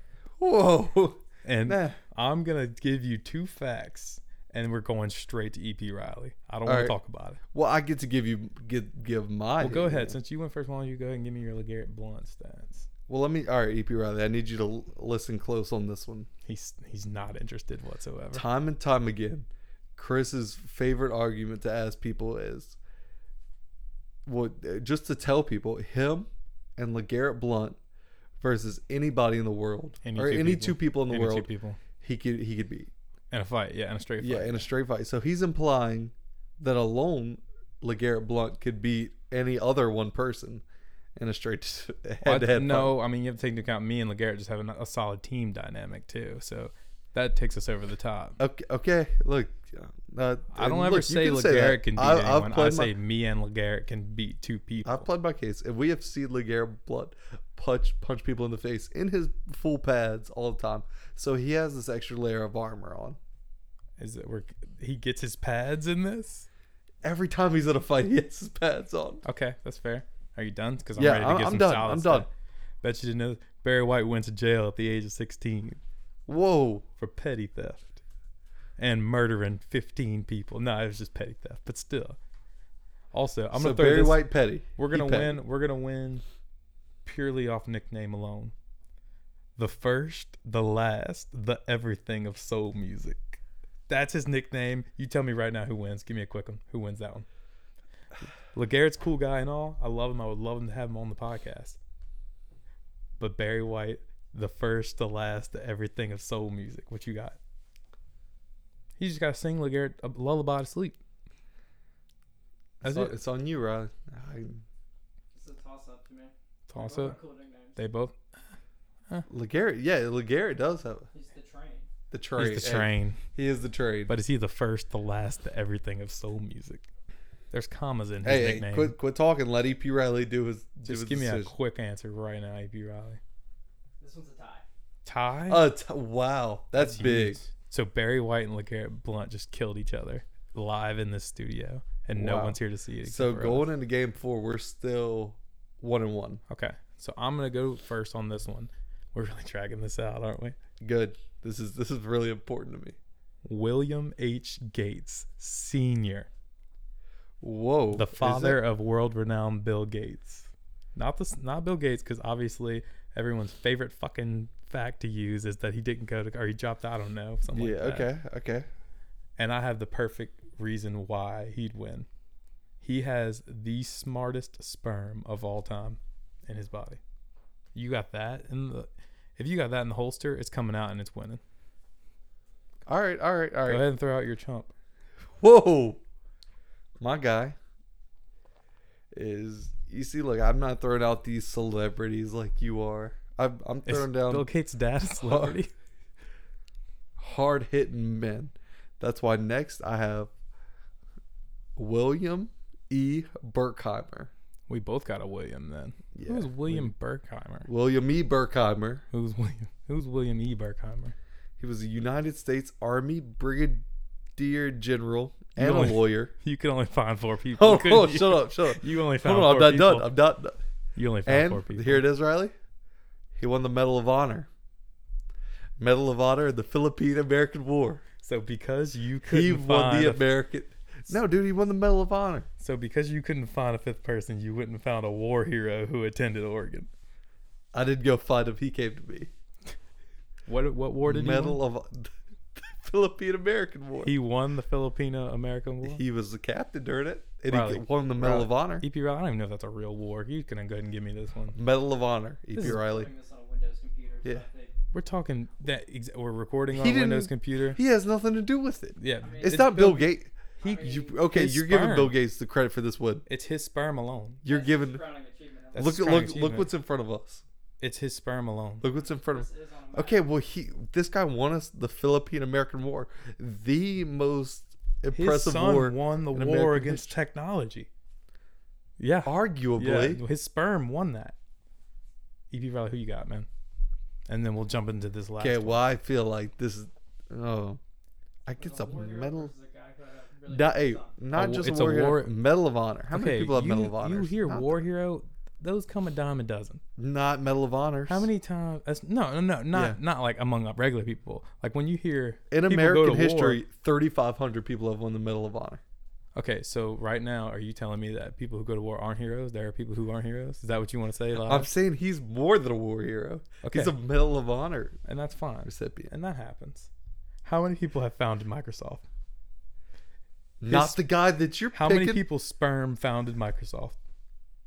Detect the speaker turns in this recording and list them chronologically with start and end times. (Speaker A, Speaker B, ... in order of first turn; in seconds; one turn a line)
Speaker A: 0.4-2.0
Speaker B: 1.4-7.4
Speaker A: 6.7-7.0
Speaker A: 7.5-10.1
Speaker B: 9.6-12.9
Speaker A: 13.1-16.3
Speaker B: 16.5-18.4
Speaker A: 18.3-22.8
Speaker A: 24.3-27.8
Speaker A: 28.4-31.5
Speaker B: 30.0-31.8
Speaker A: 32.0-32.9
Speaker B: 33.3-34.7
Speaker A: 34.2-40.6
Speaker A: 41.2-43.0
Speaker B: 42.2-48.4
Speaker A: 48.4-52.9
Speaker B: 50.5-55.1
Speaker A: 54.8-63.2
Speaker B: 64.0-66.5
Speaker A: 67.0-69.2
Speaker B: 69.2-72.3
Speaker A: 71.0-72.3
Speaker B: 72.8-75.8
Speaker A: 76.3-76.9
Speaker B: 77.0-78.0
Speaker B: 78.8-82.2
Speaker B: 83.1-86.2
Speaker A: 83.5-85.4
Speaker B: 87.0-88.5
Speaker B: 89.6-97.3
Speaker B: 98.5-101.8
Speaker B: 103.2-107.4
Speaker B: 109.0-111.0
Speaker B: 112.8-113.2
Speaker A: 112.8-114.6
Speaker C: 115.3-117.8
Speaker B: 116.7-117.2
Speaker B: 117.8-118.2
Speaker A: 119.3-121.1
Speaker C: 121.1-121.9
Speaker A: 122.1-124.1
Speaker B: 122.4-123.2
Speaker B: 124.1-126.9
Speaker B: 127.5-128.9
Speaker A: 128.2-131.5
Speaker B: 130.8-133.2
Speaker C: 134.0-134.7
Speaker B: 135.1-135.7
Speaker A: 135.5-137.4
Speaker B: 136.8-143.7
Speaker A: 142.2-146.4
Speaker B: 146.5-150.6
Speaker A: 150.8-153.0
Speaker B: 153.4-156.3
Speaker A: 157.4-158.6
Speaker B: 157.9-168.1
Speaker A: 167.5-168.7
Speaker B: 169.4-172.1
Speaker B: 172.8-177.0
Speaker B: 177.8-181.4
Speaker A: 182.9-183.8
Speaker B: 183.7-184.7
Speaker A: 185.4-186.0
Speaker A: 187.0-187.6
Speaker A: 189.1-194.5
Speaker B: 193.9-195.7
Speaker A: 195.2-195.6
Speaker A: 197.2-200.3
Speaker A: 201.8-204.3
Speaker B: 204.7-207.7
Speaker A: 206.2-206.9
Speaker A: 207.7-209.0
Speaker B: 209.1-211.2
Speaker A: 211.6-213.8
Speaker A: 214.4-216.3
Speaker B: 215.6-220.1
Speaker A: 217.6-220.6
Speaker B: 221.0-222.0
Speaker A: 221.3-222.5
Speaker A: 223.4-224.5
Speaker A: 225.8-228.0
Speaker B: 228.2-230.2
Speaker A: 229.2-232.5
Speaker B: 232.6-236.9
Speaker A: 237.7-239.3
Speaker B: 240.5-241.6
Speaker A: 241.1-244.1
Speaker B: 244.0-246.0
Speaker A: 245.8-248.8
Speaker B: 247.5-251.6
Speaker A: 251.6-253.1
Speaker C: 252.6-254.7
Speaker B: 254.9-257.8
Speaker A: 256.7-263.2
Speaker B: 259.0-260.1
Speaker C: 259.2-259.9
Speaker C: 260.6-261.2
Speaker B: 261.3-262.2
Speaker B: 263.3-264.4
Speaker A: 264.4-265.0
Speaker C: 264.4-265.9
Speaker B: 265.8-266.7
Speaker A: 265.8-267.4
Speaker B: 267.8-268.9
Speaker A: 268.8-277.2
Speaker C: 269.0-270.3
Speaker B: 275.1-277.9
Speaker B: 279.0-281.4
Speaker A: 279.2-280.2
Speaker B: 282.5-283.5
Speaker B: 284.3-285.8
Speaker A: 285.4-287.8
Speaker A: 288.5-289.5
Speaker C: 288.6-291.2
Speaker A: 290.5-294.7
Speaker B: 291.3-292.3
Speaker B: 293.1-296.8
Speaker A: 297.0-298.3
Speaker B: 298.1-303.6
Speaker A: 299.7-300.0
Speaker A: 302.5-305.8
Speaker B: 306.4-311.7
Speaker A: 311.4-315.0
Speaker B: 313.6-313.9
Speaker B: 315.1-316.9
Speaker A: 315.7-316.1
Speaker B: 317.4-319.0
Speaker A: 320.6-322.2
Speaker B: 320.7-321.0
Speaker B: 321.7-324.0